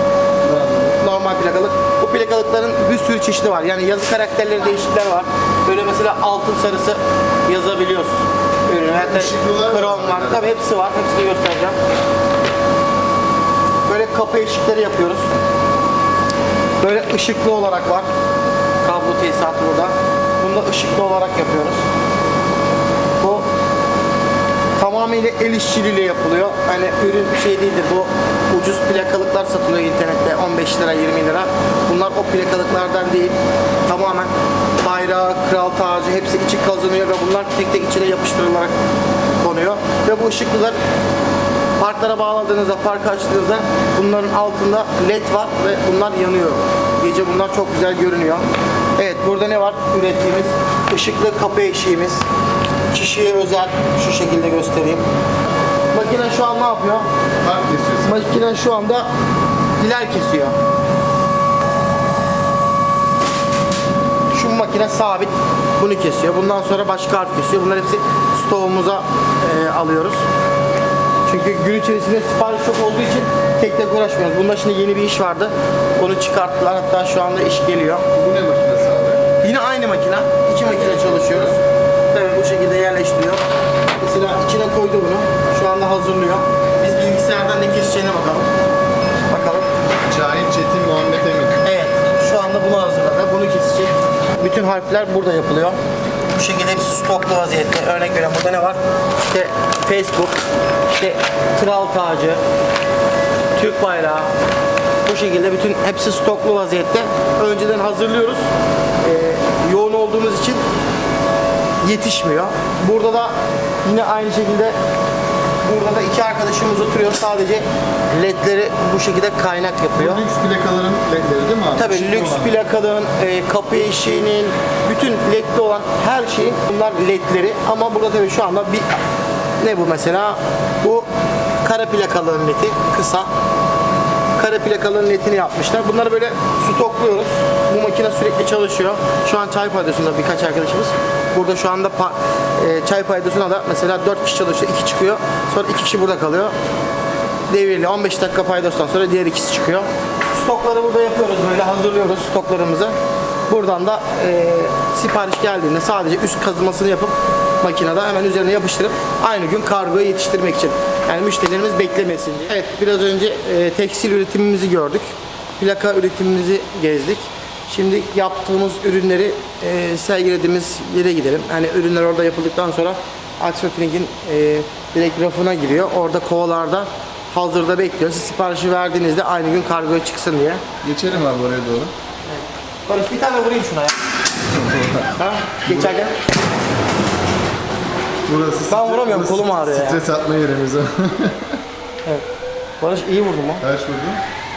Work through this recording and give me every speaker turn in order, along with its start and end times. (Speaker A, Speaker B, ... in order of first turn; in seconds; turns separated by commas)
Speaker A: 0.4-1.0, Speaker B: 1.0-11.8, Speaker A: 8.9-10.6, Speaker B: 13.8-15.3, Speaker B: 16.8-18.1, Speaker B: 18.8-21.9, Speaker B: 23.2-23.5, Speaker B: 24.8-38.8, Speaker B: 39.4-40.8, Speaker B: 41.8-52.2, Speaker B: 52.9-55.1, Speaker B: 55.9-57.1, Speaker A: 57.4-58.3, Speaker B: 58.0-59.1, Speaker B: 59.8-60.5, Speaker B: 64.3-70.3, Speaker B: 71.3-78.1, Speaker A: 78.1-79.3, Speaker B: 79.4-83.4, Speaker A: 80.6-81.6, Speaker B: 84.0-88.5, Speaker B: 89.3-89.7, Speaker A: 90.0-91.6, Speaker B: 91.6-95.8, Speaker B: 96.3-100.4, Speaker B: 100.9-102.4, Speaker B: 103.5-104.3, Speaker B: 105.0-108.5, Speaker B: 109.0-110.6, Speaker B: 111.8-114.8, Speaker B: 115.6-120.2, Speaker A: 120.0-122.5, Speaker B: 121.8-129.0, Speaker B: 129.6-131.1, Speaker B: 131.6-133.3, Speaker B: 134.3-146.5, Speaker B: 147.5-153.0, Speaker B: 153.5-165.0, Speaker B: 165.6-180.6, Speaker A: 180.8-181.9, Speaker B: 182.2-184.0, Speaker A: 184.5-185.1, Speaker B: 185.2-186.2, Speaker A: 185.7-186.0, Speaker A: 188.3-191.6, Speaker B: 188.7-190.0, Speaker B: 192.8-193.6, Speaker A: 193.6-194.2